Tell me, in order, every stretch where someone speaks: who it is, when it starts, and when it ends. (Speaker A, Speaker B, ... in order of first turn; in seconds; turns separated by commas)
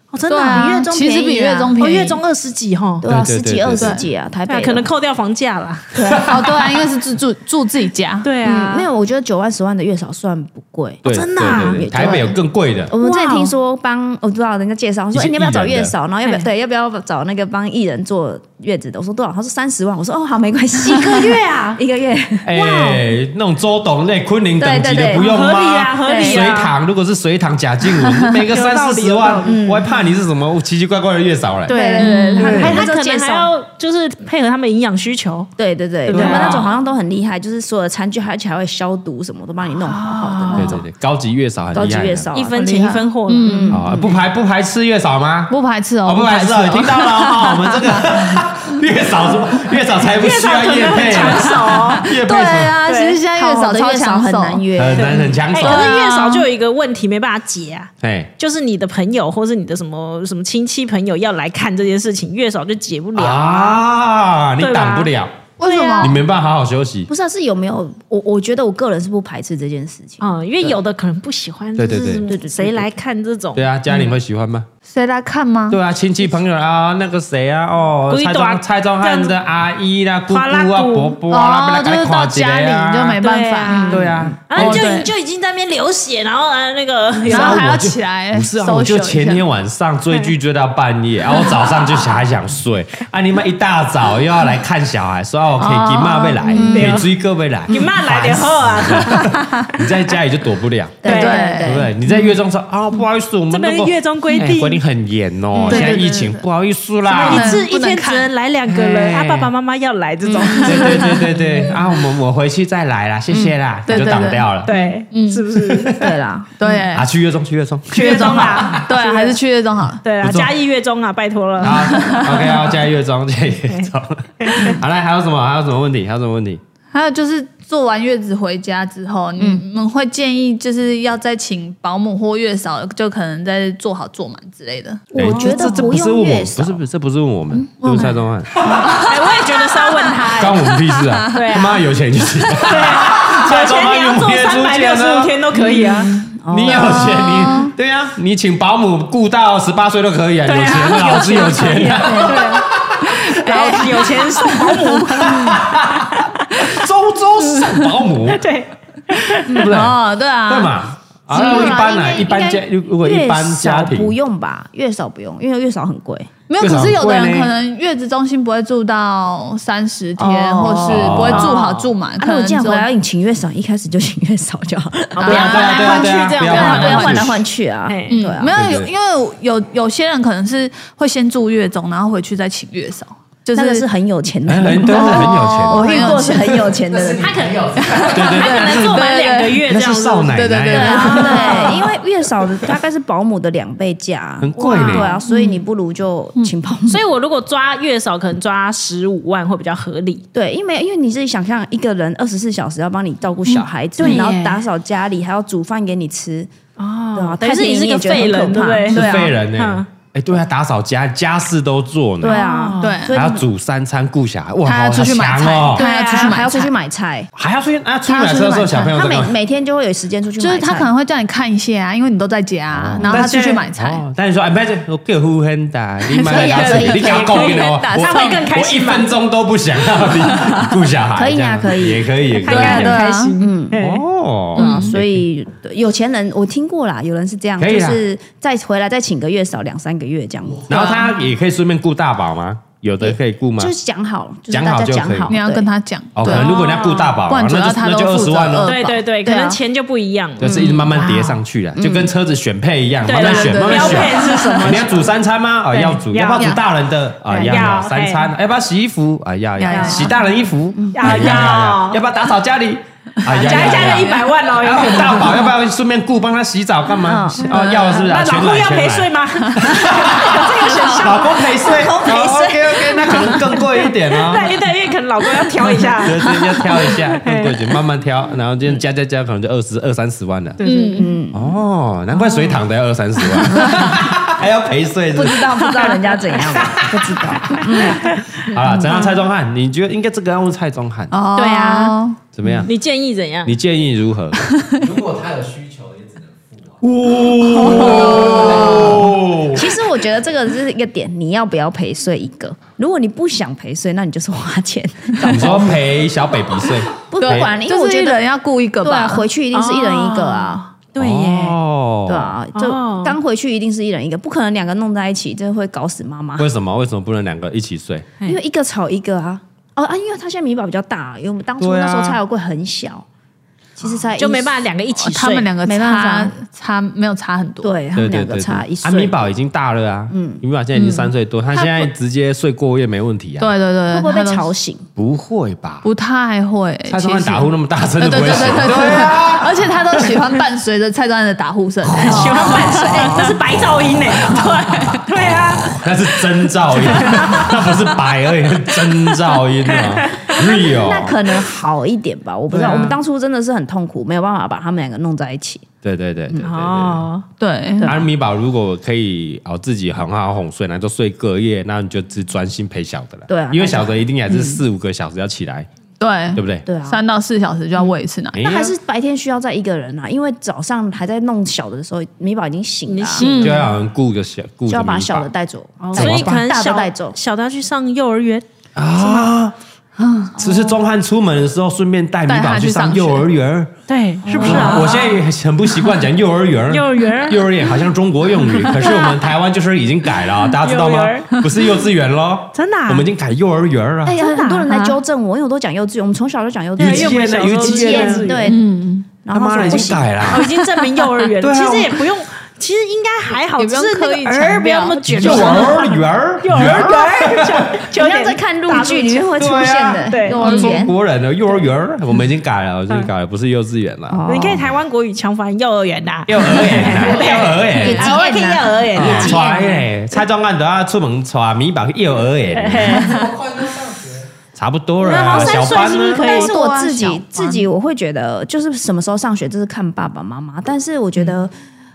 Speaker A: 0.1-0.9, Speaker B: 0.3-2.2, Speaker C: 0.5-1.8, Speaker A: 1.8-3.1, Speaker C: 3.0-4.9, Speaker D: 3.1-4.0, Speaker B: 3.8-4.0, Speaker A: 4.5-6.2, Speaker C: 5.9-6.3, Speaker D: 6.1-6.5, Speaker B: 6.3-8.3, Speaker A: 8.2-8.9, Speaker C: 8.4-12.4, Speaker A: 11.1-12.3, Speaker D: 11.1-12.9, Speaker C: 12.9-22.5, Speaker A: 13.0-13.5, Speaker D: 15.1-15.9, Speaker A: 20.8-21.8, Speaker D: 22.4-31.8, Speaker A: 22.5-23.0, Speaker C: 24.6-25.3, Speaker A: 25.2-26.7, Speaker C: 26.0-26.5, Speaker A: 28.5-29.6, Speaker C: 29.4-29.9, Speaker A: 31.7-35.5, Speaker C: 31.7-33.5, Speaker B: 32.0-32.7, Speaker D: 32.4-32.8, Speaker C: 35.6-40.9, Speaker A: 36.1-36.7, Speaker D: 36.1-36.7, Speaker A: 39.8-40.8, Speaker D: 40.5-42.3, Speaker C: 41.7-42.7, Speaker A: 42.3-43.8, Speaker B: 42.5-43.8, Speaker C: 43.4-44.2, Speaker D: 43.7-52.8, Speaker B: 45.5-48.4, Speaker A: 50.1-52.1, Speaker B: 51.9-54.6, Speaker A: 52.8-53.2, Speaker C: 53.3-55.4, Speaker D: 54.8-55.9, Speaker A: 55.5-63.8, Speaker B: 55.6-56.5, Speaker D: 58.0-58.3, Speaker D: 63.2-65.3, Speaker A: 64.6-66.2, Speaker B: 65.6-66.2, Speaker D: 66.0-67.1, Speaker C: 67.1-70.8, Speaker A: 70.2-73.7, Speaker D: 71.8-72.3, Speaker C: 72.1-72.9, Speaker D: 73.5-74.7, Speaker B: 74.8-75.8, Speaker D: 75.7-83.2, Speaker A: 78.1-79.3, Speaker A: 80.3-81.2, Speaker B: 81.3-85.1, Speaker A: 83.2-87.7, Speaker C: 83.7-84.4, Speaker D: 83.9-84.9, Speaker D: 87.3-101.1, Speaker B: 87.3-89.4, Speaker B: 95.6-97.0, Speaker C: 96.5-97.0, Speaker A: 96.6-97.1, Speaker A: 97.7-99.4, Speaker B: 99.2-99.7, Speaker C: 101.0-101.9, Speaker A: 101.0-101.6, Speaker B: 101.1-101.8, Speaker D: 101.6-107.6, Speaker A: 103.5-104.8, Speaker A: 105.6-106.0, Speaker B: 105.6-106.4, Speaker A: 107.1-111.2, Speaker B: 107.3-108.3, Speaker D: 108.7-109.5, Speaker B: 110.3-111.2, Speaker D: 110.5-114.7, Speaker C: 113.3-113.6, Speaker B: 113.9-114.5, Speaker A: 114.7-116.0, Speaker B: 115.1-115.5, Speaker D: 115.7-116.0, Speaker C: 116.0-116.7, Speaker B: 116.6-117.1, Speaker D: 116.9-118.8, Speaker A: 117.9-119.4, Speaker B: 118.0-120.0, Speaker A: 120.0-122.3, Speaker D: 120.2-120.5, Speaker D: 121.6-126.6, Speaker B: 121.7-122.5, Speaker A: 123.7-124.8, Speaker B: 126.9-135.9, Speaker C: 129.4-129.7, Speaker C: 135.1-136.8, Speaker D: 135.2-139.0, Speaker C: 137.5-138.1, Speaker B: 138.6-140.4, Speaker A: 139.0-140.8, Speaker D: 140.3-145.3, Speaker A: 141.3-141.8, Speaker A: 142.6-146.1, Speaker C: 145.6-147.5, Speaker D: 146.5-153.8, Speaker B: 146.6-147.7, Speaker A: 150.5-152.7, Speaker C: 152.0-152.4, Speaker B: 153.0-155.4, Speaker A: 153.4-156.6, Speaker D: 155.2-158.4, Speaker A: 157.5-159.6, Speaker D: 159.5-164.2, Speaker B: 159.5-160.7, Speaker C: 161.3-166.3, Speaker B: 161.3-161.7, Speaker B: 166.5-172.9, Speaker D: 166.6-167.5, Speaker C: 170.2-178.6, Speaker D: 170.8-171.6, Speaker A: 171.3-171.9, Speaker A: 175.2-177.1, Speaker B: 175.2-177.3, Speaker D: 175.3-177.4, Speaker A: 177.9-178.2, Speaker B: 178.1-183.8, Speaker D: 178.5-178.9, Speaker C: 183.5-187.5, Speaker D: 184.5-186.1, Speaker B: 184.8-186.7, Speaker E: 186.8-188.3, Speaker A: 187.2-191.8, Speaker B: 187.8-189.7, Speaker D: 188.1-189.1, Speaker D: 189.6-191.3, Speaker B: 190.3-191.8, Speaker C: 190.7-197.0, Speaker D: 194.4-195.2, Speaker A: 194.7-195.4, Speaker B: 194.8-195.5, Speaker A: 196.9-200.2, Speaker C: 200.3-206.5, Speaker B: 204.0-204.3, Speaker A: 204.0-204.6, Speaker A: 206.8-209.9, Speaker C: 207.2-209.3, Speaker D: 208.9-212.4, Speaker C: 212.2-213.4, Speaker A: 212.3-213.1, Speaker B: 212.8-213.2, Speaker D: 213.1-215.8, Speaker B: 214.7-216.7, Speaker A: 215.8-216.4, Speaker C: 215.8-217.3, Speaker D: 217.4-219.3, Speaker B: 218.1-219.0, Speaker C: 218.8-220.9, Speaker B: 220.4-224.0, Speaker D: 222.7-233.1, Speaker B: 226.2-228.5, Speaker C: 226.2-227.5, Speaker A: 226.4-229.1, Speaker C: 231.1-232.2, Speaker A: 232.4-234.0, Speaker B: 232.5-233.3, Speaker C: 233.4-233.8, Speaker D: 233.8-235.2, Speaker C: 234.6-240.9, Speaker B: 234.6-234.9, Speaker D: 237.6-238.0, Speaker D: 240.7-243.7, Speaker B: 240.8-241.1, Speaker C: 243.0-245.7, Speaker D: 244.5-245.3, Speaker B: 245.3-249.1, Speaker D: 246.2-248.7, Speaker A: 246.2-247.2, Speaker A: 248.6-251.4, Speaker C: 249.2-249.6, Speaker D: 250.4-274.5, Speaker C: 250.4-250.8, Speaker C: 251.8-252.1, Speaker A: 253.1-255.1, Speaker B: 253.2-254.9, Speaker A: 255.7-256.6, Speaker A: 257.3-258.3, Speaker B: 259.6-260.1, Speaker C: 259.7-260.1, Speaker C: 260.8-261.3, Speaker A: 260.9-262.0, Speaker A: 263.3-265.5, Speaker B: 263.3-264.1, Speaker C: 267.0-267.6, Speaker A: 267.5-271.6, Speaker B: 267.5-267.8, Speaker B: 270.6-271.1, Speaker C: 271.5-273.5, Speaker A: 274.3-277.7, Speaker D: 276.0-280.6, Speaker A: 280.6-281.1, Speaker B: 280.6-281.1, Speaker C: 280.9-281.5, Speaker D: 281.3-285.6, Speaker A: 282.2-282.6, Speaker C: 285.1-288.8, Speaker A: 285.9-286.8, Speaker B: 287.1-287.6, Speaker A: 287.7-288.3, Speaker D: 288.4-291.2, Speaker B: 291.1-292.2, Speaker A: 291.4-292.0, Speaker D: 292.4-292.7, Speaker A: 292.6-293.5, Speaker D: 293.4-294.4, Speaker E: 294.8-296.8, Speaker D: 296.8-299.7, Speaker B: 297.5-299.0, Speaker E: 297.7-299.0, Speaker C: 299.5-305.9, Speaker D: 305.2-307.5, Speaker C: 306.9-308.2, Speaker B: 307.2-309.3, Speaker C: 308.8-310.6, Speaker A: 309.5-311.6, Speaker D: 311.0-312.4, Speaker C: 312.1-316.5, Speaker A: 312.5-313.2, Speaker D: 316.4-318.1, Speaker C: 318.2-323.1, Speaker D: 321.6-322.2, Speaker C: 323.8-324.6, Speaker A: 324.2-325.5, Speaker B: 325.0-327.7, Speaker C: 325.6-326.4, Speaker C: 327.6-329.2, Speaker D: 328.0-333.5, Speaker C: 330.1-330.4, Speaker B: 330.8-331.9, Speaker B: 333.4-334.5, Speaker C: 333.9-334.9, Speaker D: 335.0-335.9, Speaker B: 335.8-343.3, Speaker D: 336.9-340.1, Speaker D: 341.9-342.5, Speaker A: 342.0-345.9, Speaker C: 342.1-343.4, Speaker D: 343.5-344.2, Speaker D: 345.1-351.2, Speaker A: 346.8-347.6, Speaker A: 349.7-350.4, Speaker C: 350.4-355.7, Speaker D: 352.5-352.9, Speaker A: 352.6-352.9, Speaker D: 355.8-357.1, Speaker A: 356.4-357.3, Speaker B: 357.4-357.9, Speaker C: 357.8-358.1, Speaker D: 357.9-365.7, Speaker C: 363.3-364.5, Speaker B: 366.0-368.5, Speaker D: 366.3-366.7, Speaker C: 366.7-367.0, Speaker C: 367.8-373.3, Speaker D: 368.3-368.7, Speaker A: 372.9-373.6, Speaker B: 373.2-373.7, Speaker D: 373.3-375.3, Speaker C: 374.7-377.2, Speaker A: 375.8-378.4, Speaker D: 375.9-376.4, Speaker D: 378.8-379.6, Speaker B: 380.0-380.4, Speaker C: 380.4-380.8, Speaker D: 380.4-383.7, Speaker B: 382.3-383.3, Speaker A: 383.9-385.2, Speaker C: 384.2-385.0, Speaker D: 384.4-394.2, Speaker A: 386.7-387.5, Speaker A: 388.6-389.0, Speaker B: 388.8-389.2, Speaker A: 390.6-391.4, Speaker A: 392.5-393.1, Speaker C: 394.1-400.2, Speaker A: 394.1-394.7, Speaker B: 394.7-395.0, Speaker D: 396.8-398.3, Speaker A: 396.8-398.6, Speaker B: 398.5-399.1, Speaker D: 399.3-400.4, Speaker A: 400.3-409.4, Speaker D: 401.4-402.0, Speaker B: 403.6-405.8, Speaker D: 405.1-407.8, Speaker C: 407.9-411.0, Speaker D: 409.4-414.6, Speaker A: 410.1-410.8, Speaker C: 414.1-414.7, Speaker A: 414.3-419.8, Speaker D: 416.3-418.1, Speaker C: 417.1-419.9, Speaker D: 418.9-423.1, Speaker A: 422.5-423.3, Speaker E: 423.0-424.3, Speaker D: 424.5-426.3, Speaker A: 425.0-426.6, Speaker C: 425.3-431.5, Speaker B: 426.2-427.7